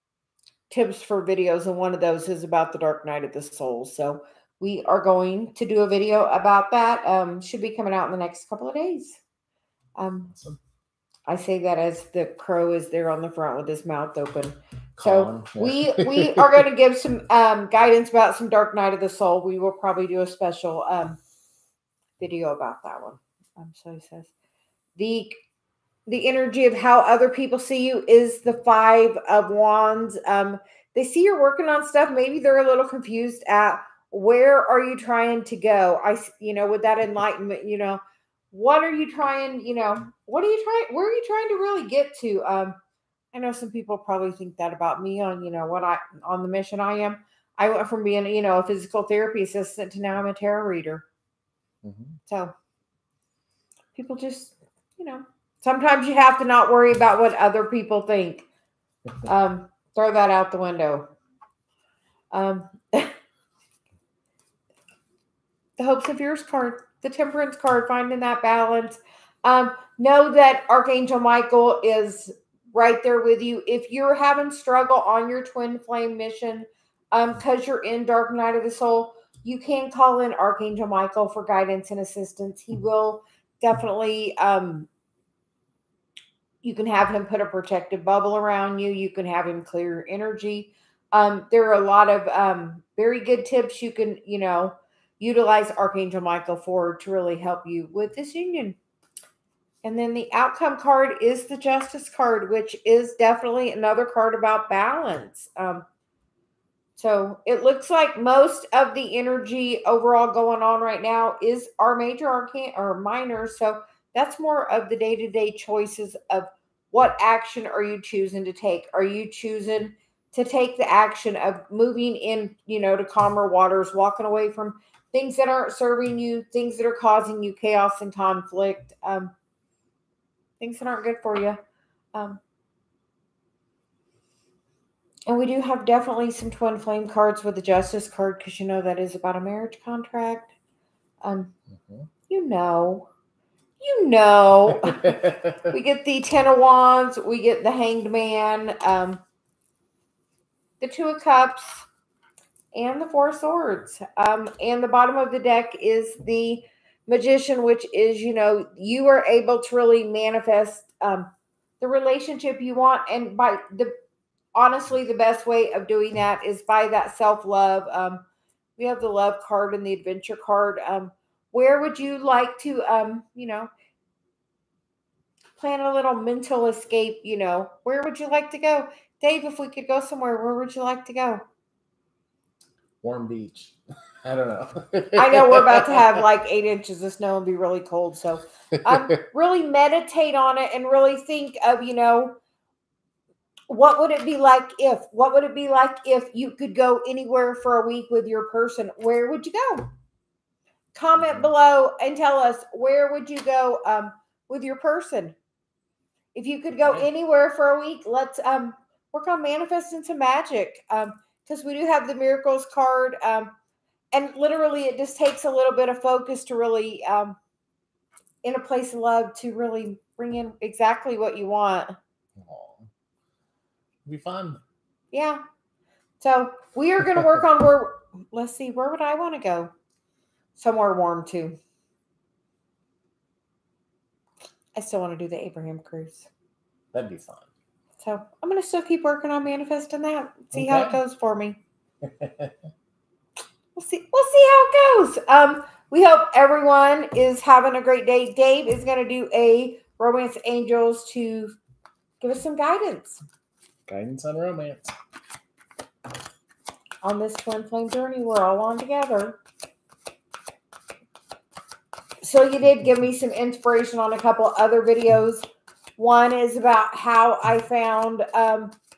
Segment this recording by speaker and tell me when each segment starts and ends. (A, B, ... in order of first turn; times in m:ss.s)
0:00.7-0:09.2 A
0:10.0-0:10.3 A
0:10.3-0:10.6 B
0:11.3-0:21.2 A
0:15.0-0:16.6 B
0:22.2-0:24.3 A
0:25.0-0:25.4 A
0:26.1-0:38.0 A
0:38.5-0:42.8 A
0:43.3-0:51.0 A
0:51.8-0:52.2 B
0:52.3-0:52.5 A
0:53.9-0:58.4 A
0:59.2-1:01.1 A
1:02.3-1:03.1 A
1:05.8-1:24.9 A
1:26.6-1:38.8 A
1:39.8-1:45.8 A
1:47.0-2:09.3 A
2:10.6-2:11.6 A
2:12.1-2:12.4 A
2:15.3-2:20.5 A
2:21.2-2:21.5 A
2:22.3-2:23.1 A
2:23.8-2:29.2 A
2:25.0-2:25.5 B
2:30.8-2:31.8 A
2:32.7-2:41.3 A
2:41.8-2:43.9 A
2:44.5-2:48.2 A
2:48.8-2:53.7 A
2:55.6-3:01.4 A
3:03.0-3:06.2 B
3:05.2-3:12.3 A
3:13.7-3:19.9 A
3:20.9-3:25.4 A
3:21.2-3:21.5 B
3:26.3-3:33.5 A
3:26.8-3:27.1 B
3:34.1-3:37.4 A
3:38.4-3:41.9 A
3:42.4-3:42.9 B
3:44.0-3:44.6 B
3:45.1-3:45.4 A
3:46.2-3:49.7 A
3:50.5-3:51.6 A
3:54.7-3:56.3 A
3:56.9-3:57.4 B
3:58.0-4:01.6 A
4:00.5-4:01.0 B
4:02.0-4:02.5 B
4:03.8-4:11.5 A
4:12.2-4:13.2 A
4:13.9-4:14.9 B
4:17.0-4:19.4 A
4:22.2-4:25.4 A
4:26.0-4:28.7 A